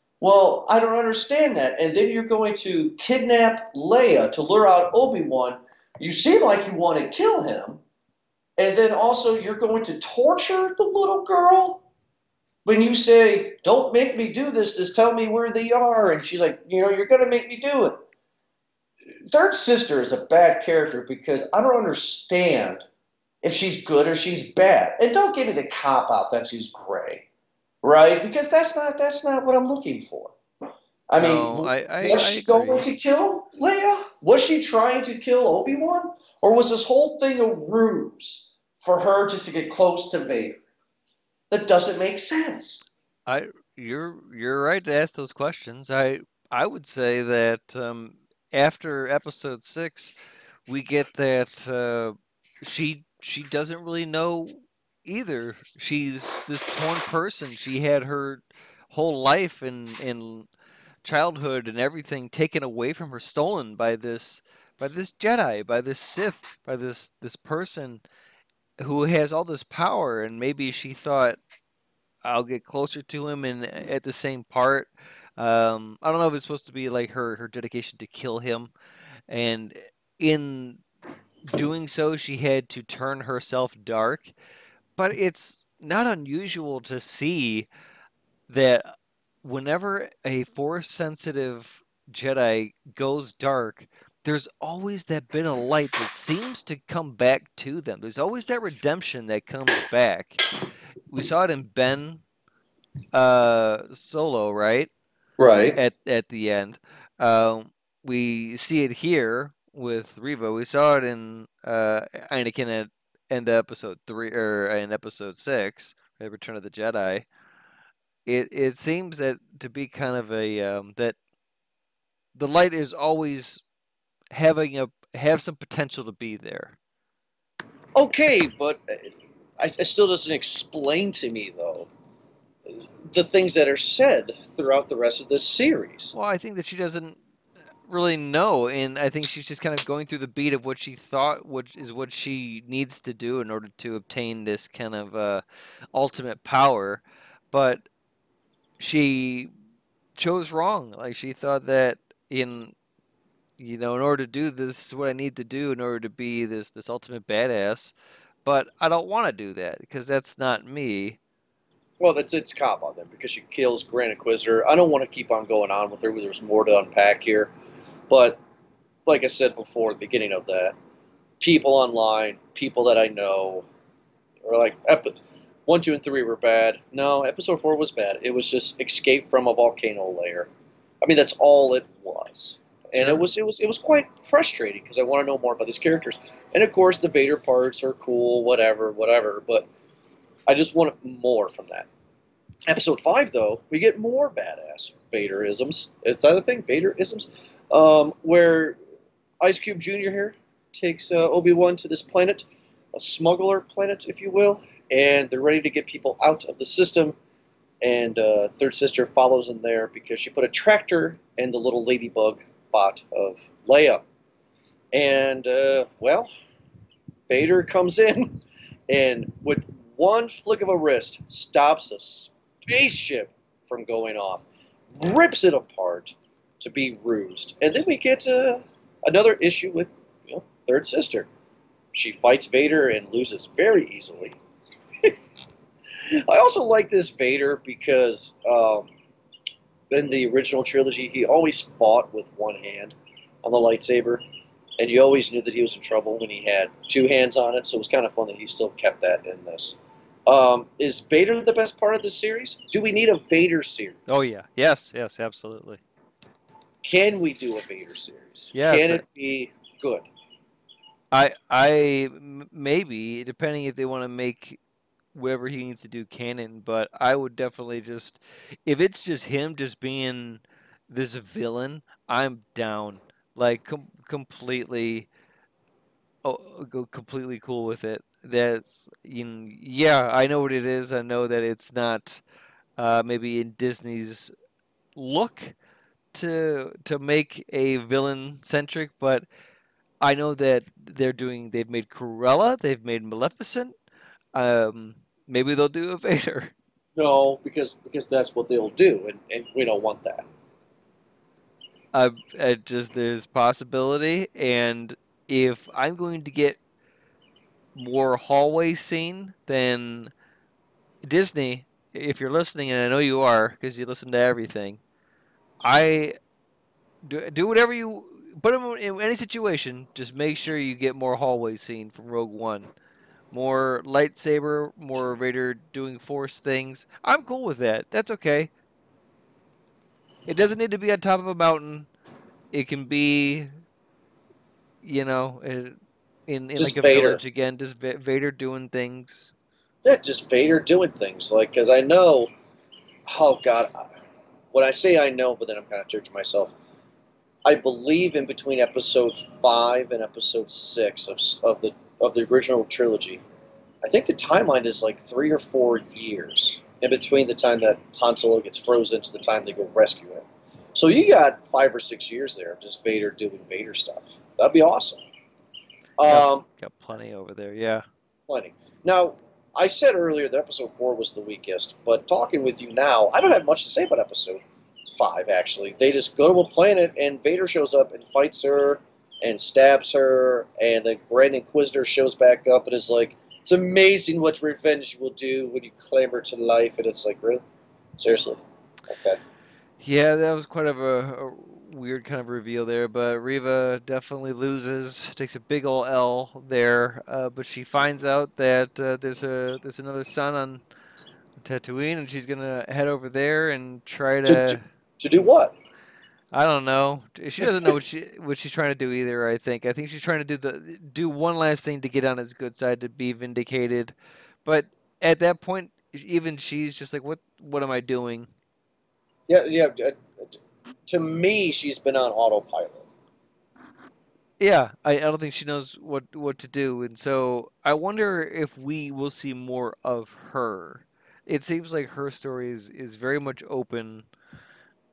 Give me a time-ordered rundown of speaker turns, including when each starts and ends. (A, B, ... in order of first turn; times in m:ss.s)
0:00.2-0:07.8 A
0:08.6-0:11.8 A
0:12.6-0:18.0 A
0:19.3-0:22.8 A
0:23.4-0:27.2 A
0:27.8-0:30.3 A
0:31.1-0:40.6 A
0:31.2-0:32.8 B
0:41.5-0:42.8 A
0:43.3-0:50.1 B
0:50.7-1:00.5 B
1:01.0-1:08.0 B
1:08.8-1:11.4 B
1:12.2-1:18.7 B
1:19.3-1:20.8 B
1:21.5-1:24.3 B
1:25.0-1:27.7 B
1:28.5-1:28.9 B
1:29.4-1:40.4 B
1:41.1-1:42.2 B
1:43.1-1:44.9 B
1:45.4-1:45.8 A
1:45.7-1:57.3 B
1:58.2-2:01.2 B
2:02.3-2:03.6 B
2:04.3-2:06.8 B
2:07.9-2:11.9 A
2:12.7-2:16.1 A
2:16.1-2:17.2 B
2:17.9-2:25.4 B
2:25.9-2:27.8 B
2:28.8-2:29.5 B
2:30.2-2:32.7 B
2:33.6-2:37.9 B
2:38.4-2:41.2 B
2:42.0-2:47.5 A
2:48.1-2:48.4 A
2:49.0-2:50.8 A
2:51.4-2:53.6 A
2:54.4-3:00.5 A
3:01.0-3:09.7 A
3:02.9-3:03.2 B
3:10.5-3:11.9 A
3:12.6-3:18.8 A
3:19.4-3:27.2 A
3:27.8-3:34.0 A
3:34.9-3:36.3 A
3:37.3-3:51.3 A
3:51.9-3:54.4 A
3:56.1-3:58.9 A
3:59.9-4:04.2 A
4:04.8-4:14.2 A
4:14.1-4:15.8 B
4:16.8-4:20.1 A
4:18.5-4:19.0 B
4:21.1-4:24.6 B
4:25.1-4:35.1 B
4:36.2-4:42.2 B
4:42.8-4:44.3 B
4:45.0-4:45.5 B
4:46.1-4:49.2 B
4:50.0-4:53.7 B
4:54.3-4:56.5 B
4:57.0-5:00.3 A
5:01.9-5:06.6 B
5:07.7-5:10.1 B
5:11.0-5:14.8 B
5:15.6-5:16.2 B
5:17.0-5:22.7 B
5:23.3-5:28.5 B
5:30.3-5:31.9 B
5:32.5-5:33.5 B
5:34.8-5:39.3 B
5:36.6-5:37.2 A
5:39.8-5:42.3 A
5:43.1-5:43.8 A
5:44.5-5:46.5 A
5:47.4-5:53.2 A
5:53.8-6:05.0 A
6:06.0-6:06.4 A
6:06.0-6:07.8 B
6:08.3-6:14.4 A
6:15.0-6:27.4 A
6:28.0-6:29.2 A
6:29.8-6:40.6 B
6:41.4-6:44.6 B
6:44.2-6:45.5 A
6:46.3-6:53.9 B
6:47.4-6:47.7 A
6:54.4-6:58.3 B
6:59.3-7:02.8 A
7:04.4-7:14.1 B